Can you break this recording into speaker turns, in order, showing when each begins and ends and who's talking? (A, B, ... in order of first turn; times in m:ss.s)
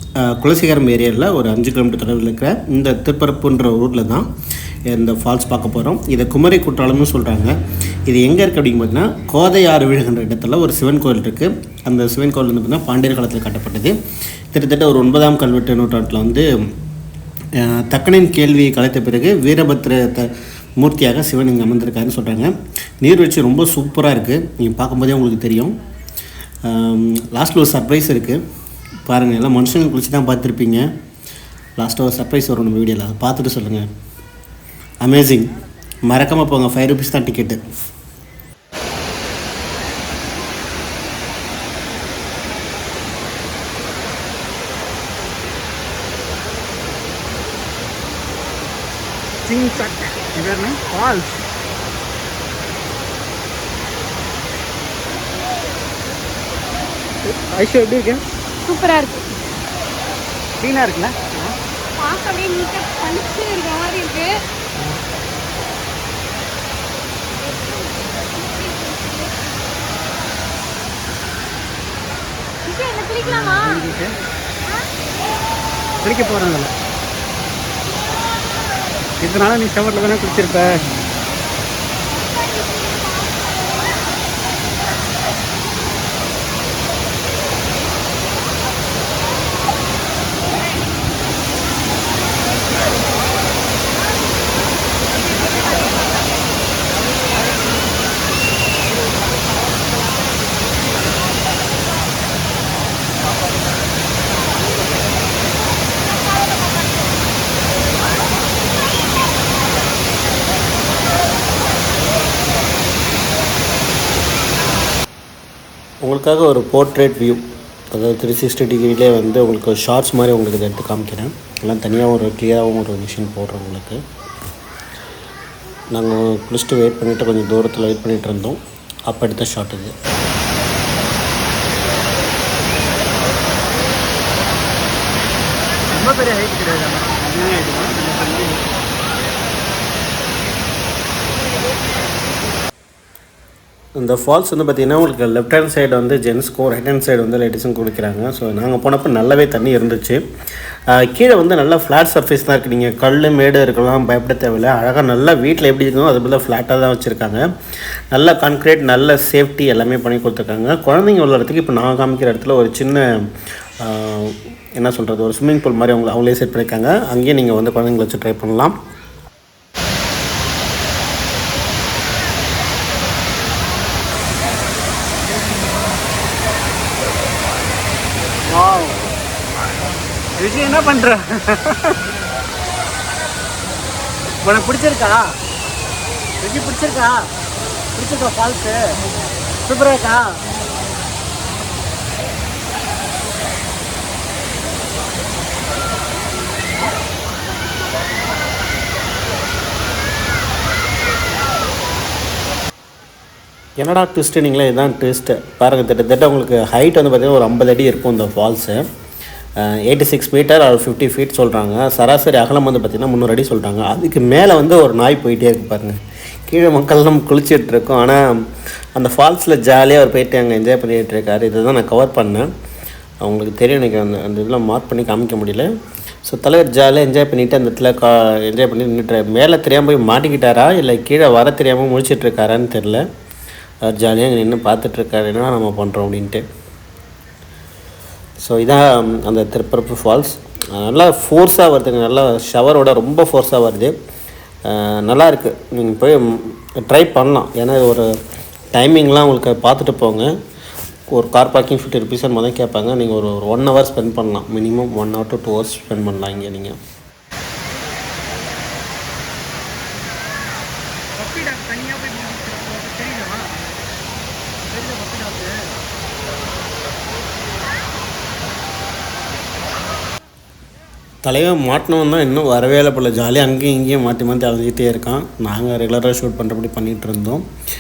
0:00.2-0:04.3 A
0:04.9-0:07.5 A
0:08.0-0:14.0 A
0:14.5-0:16.5 A
0:17.6-0:25.8 A
0:26.6-0:28.4 A
0:29.1-0:30.9 A
0:31.8-0:33.9 A
0:35.0-0:35.5 A
0:36.1-0:37.6 A
0:49.4-0:51.4 B
0:57.2-0:58.2 B
0:58.6-0:59.3 C
1:00.6-1:01.6 B
1:02.0-1:04.3 C
1:07.4-1:09.8 C
1:12.6-1:13.9 C
1:13.2-1:14.2 B
1:14.6-1:14.9 C
1:16.0-1:16.7 B
1:19.2-1:20.9 B
1:22.2-1:24.0 C
1:56.0-2:04.0 A
2:05.9-2:09.9 A
2:15.9-2:18.7 B
2:24.0-2:30.2 A
2:30.9-2:37.4 A
2:38.1-2:43.1 A
2:43.8-2:48.8 A
2:58.5-2:59.1 B
3:00.4-3:02.0 B
3:04.4-3:05.4 B
3:06.4-3:07.3 B
3:07.9-3:09.0 B
3:09.6-3:10.4 B
3:23.8-3:28.8 A
3:29.6-3:38.2 A
3:39.0-3:42.5 A
3:43.2-3:45.7 A
3:46.2-3:53.0 A
3:53.8-3:56.4 A
3:58.4-4:03.9 A
4:04.7-4:08.1 A
4:08.7-4:10.3 A
4:11.1-4:16.8 A
4:21.1-4:23.5 B
4:24.6-4:25.5 B
4:31.2-4:37.4 A